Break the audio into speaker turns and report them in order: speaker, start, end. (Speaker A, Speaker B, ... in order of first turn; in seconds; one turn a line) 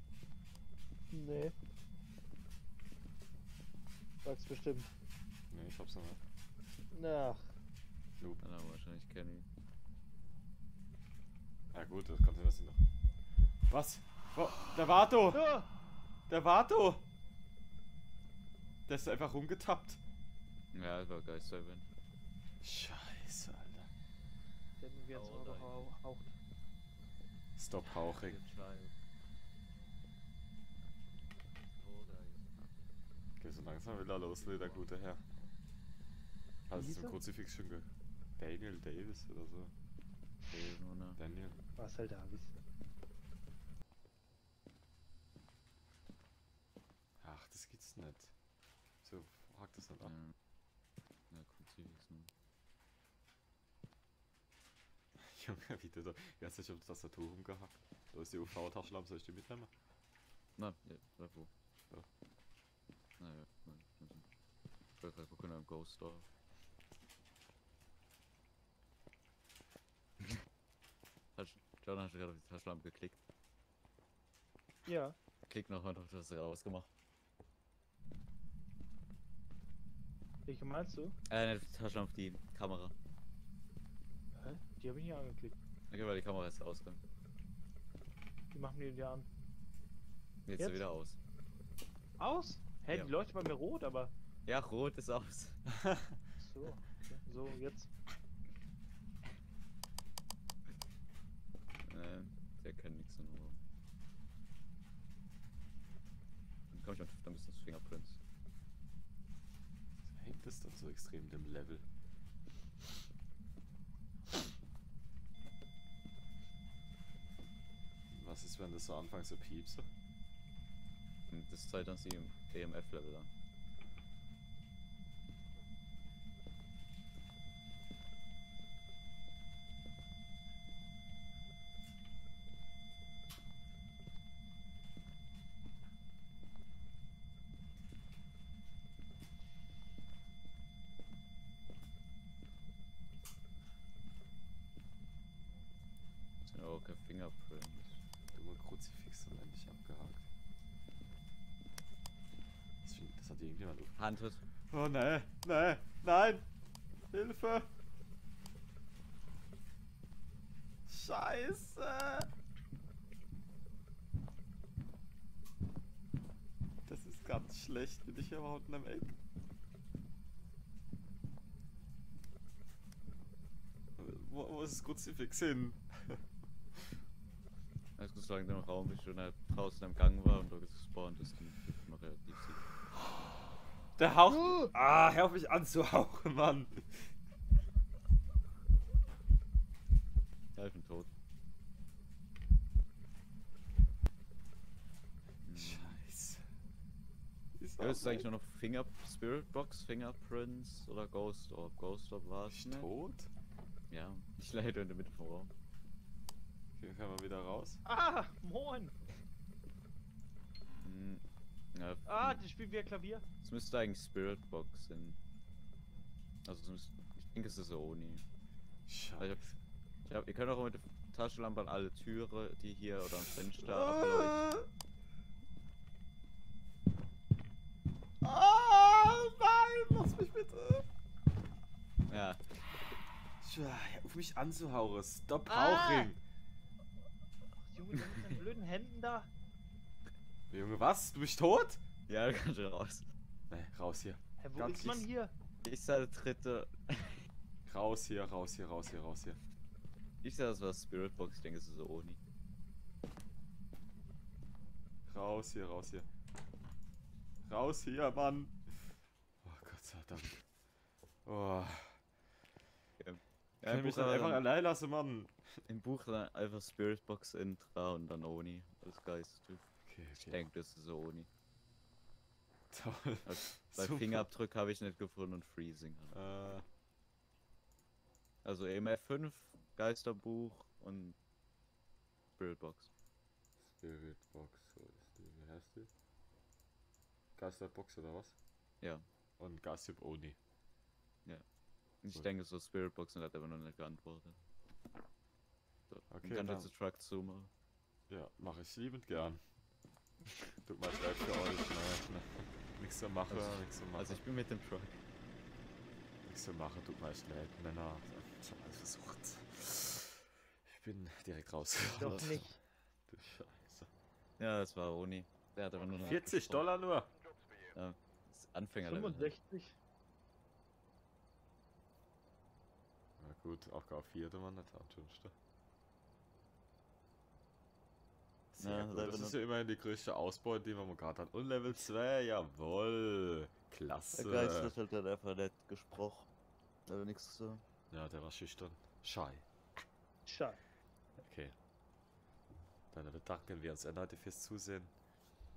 Speaker A: 1.1-1.6
Speaker A: 4.2-4.9
Speaker B: 5.5-6.2
Speaker A: 6.9-7.5
Speaker C: 8.4-9.5
Speaker B: 11.7-12.8
Speaker B: 13.7-15.4
Speaker A: 15.3-15.7
Speaker B: 16.3-17.0
Speaker B: 18.9-20.0
Speaker C: 20.7-21.9
Speaker B: 22.6-23.9
Speaker A: 24.8-26.4
Speaker C: 25.1-25.9
Speaker B: 27.6-28.4
Speaker C: 27.8-28.9
Speaker C: 31.8-32.5
Speaker B: 33.4-35.2
Speaker C: 34.2-34.9
Speaker B: 36.7-39.7
Speaker A: 36.7-37.2
Speaker C: 40.5-41.2
Speaker B: 41.2-41.6
Speaker A: 41.8-42.6
Speaker B: 47.2-48.3
Speaker B: 49.0-50.1
Speaker C: 50.0-50.3
Speaker C: 51.3-52.3
Speaker B: 55.2-59.7
Speaker C: 60.6-61.5
Speaker C: 63.2-64.2
Speaker C: 65.0-66.3
Speaker C: 71.4-73.2
Speaker A: 74.9-75.2
Speaker C: 75.5-76.9
Speaker A: 80.5-81.2
Speaker C: 81.3-82.9
Speaker A: 84.4-85.6
Speaker C: 85.9-87.0
Speaker A: 88.5-89.3
Speaker C: 90.5-91.2
Speaker A: 90.6-90.8
Speaker A: 92.2-94.1
Speaker C: 94.5-95.6
Speaker A: 96.4-97.9
Speaker C: 101.8-103.6
Speaker C: 106.7-108.2
Speaker B: 110.1-111.8
Speaker B: 118.1-119.9
Speaker C: 121.3-123.3
Speaker C: 146.4-148.0
Speaker B: 148.3-150.2
Speaker B: 152.8-154.0
Speaker C: 154.0-154.4
Speaker B: 154.7-156.4
Speaker B: 157.1-157.7
Speaker B: 160.9-162.3
Speaker B: 166.9-169.1
Speaker B: 174.0-176.2
Speaker C: 178.0-182.7
Speaker B: 184.0-187.1
Speaker C: 190.6-191.1
Speaker C: 195.4-196.0
Speaker B: 195.6-196.4
Speaker B: 197.6-198.3
Speaker C: 197.8-202.9
Speaker B: 202.5-203.3
Speaker C: 203.9-205.5
Speaker B: 206.8-207.8
Speaker A: 207.9-208.9
Speaker C: 210.8-211.2
Speaker C: 211.7-212.4
Speaker A: 212.1-213.2
Speaker C: 213.4-215.2
Speaker C: 216.4-218.2
Speaker B: 218.9-219.6
Speaker C: 220.1-224.5
Speaker B: 223.2-224.7
Speaker B: 228.2-230.9
Speaker C: 232.1-232.4
Speaker B: 233.4-236.2
Speaker C: 235.5-236.1
Speaker A: 237.7-239.3
Speaker B: 240.5-241.8
Speaker C: 242.1-243.0
Speaker B: 243.5-245.1
Speaker A: 244.4-245.3
Speaker C: 245.6-247.2
Speaker B: 247.7-249.4
Speaker C: 250.2-252.2
Speaker B: 255.1-256.1
Speaker B: 257.5-258.9
Speaker B: 259.4-260.4
Speaker B: 261.2-262.0
Speaker C: 263.0-264.4
Speaker B: 263.6-265.6
Speaker C: 265.7-271.3
Speaker B: 269.9-270.5
Speaker B: 272.7-274.3
Speaker C: 273.2-276.2
Speaker B: 276.1-276.6
Speaker C: 278.4-281.2
Speaker C: 282.4-282.9
Speaker B: 283.6-285.9
Speaker B: 287.4-288.4
Speaker B: 289.4-290.4
Speaker C: 292.0-294.4
Speaker C: 295.9-297.5
Speaker B: 296.1-296.7
Speaker B: 298.1-299.4
Speaker B: 300.6-304.2
Speaker C: 303.3-305.0
Speaker B: 306.2-312.5
Speaker C: 312.0-312.4
Speaker A: 312.0-312.6
Speaker B: 313.1-313.9
Speaker C: 314.4-316.7
Speaker B: 315.9-317.1
Speaker C: 317.7-319.3
Speaker A: 318.8-319.8
Speaker B: 323.2-325.3
Speaker B: 328.5-334.7
Speaker C: 328.6-329.4
Speaker C: 334.1-336.3
Speaker C: 336.9-337.6
Speaker B: 337.9-339.4
Speaker A: 340.3-340.6
Speaker B: 341.2-341.6
Speaker B: 342.9-344.9